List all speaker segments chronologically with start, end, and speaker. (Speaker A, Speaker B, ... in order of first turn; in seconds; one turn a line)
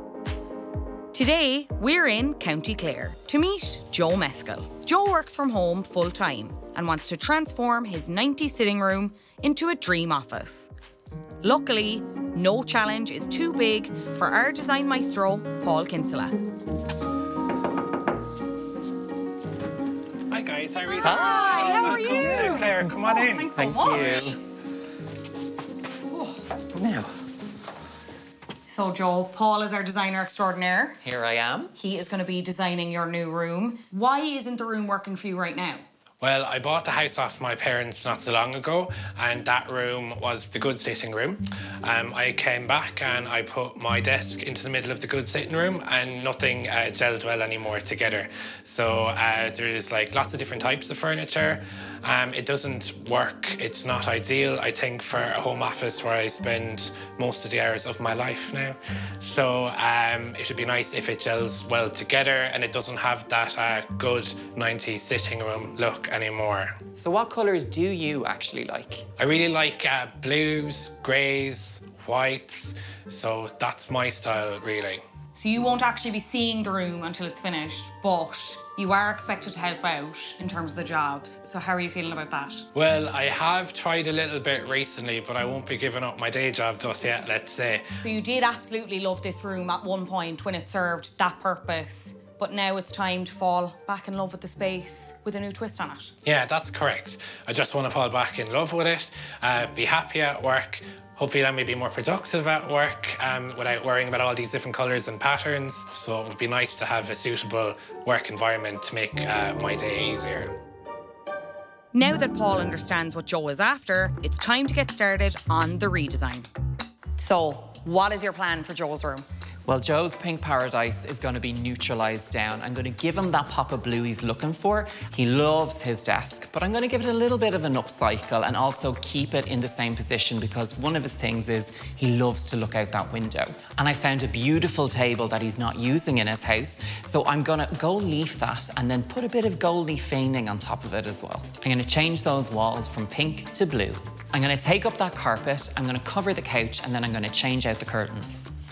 Speaker A: 1.1-10.7
Speaker A: 11.4-16.4
Speaker B: 20.3-23.5
Speaker C: 21.0-22.8
Speaker A: 21.1-24.3
Speaker C: 23.6-24.4
Speaker A: 26.1-26.4
Speaker C: 26.7-27.1
Speaker A: 28.7-31.0
Speaker C: 31.0-31.7
Speaker A: 31.8-35.8
Speaker B: 36.2-66.7
Speaker C: 67.0-69.1
Speaker B: 69.2-75.0
Speaker A: 75.3-82.7
Speaker B: 82.7-87.8
Speaker A: 88.0-96.1
Speaker B: 96.2-110.5
Speaker A: 111.9-116.5
Speaker A: 117.2-119.2
Speaker C: 119.7-148.5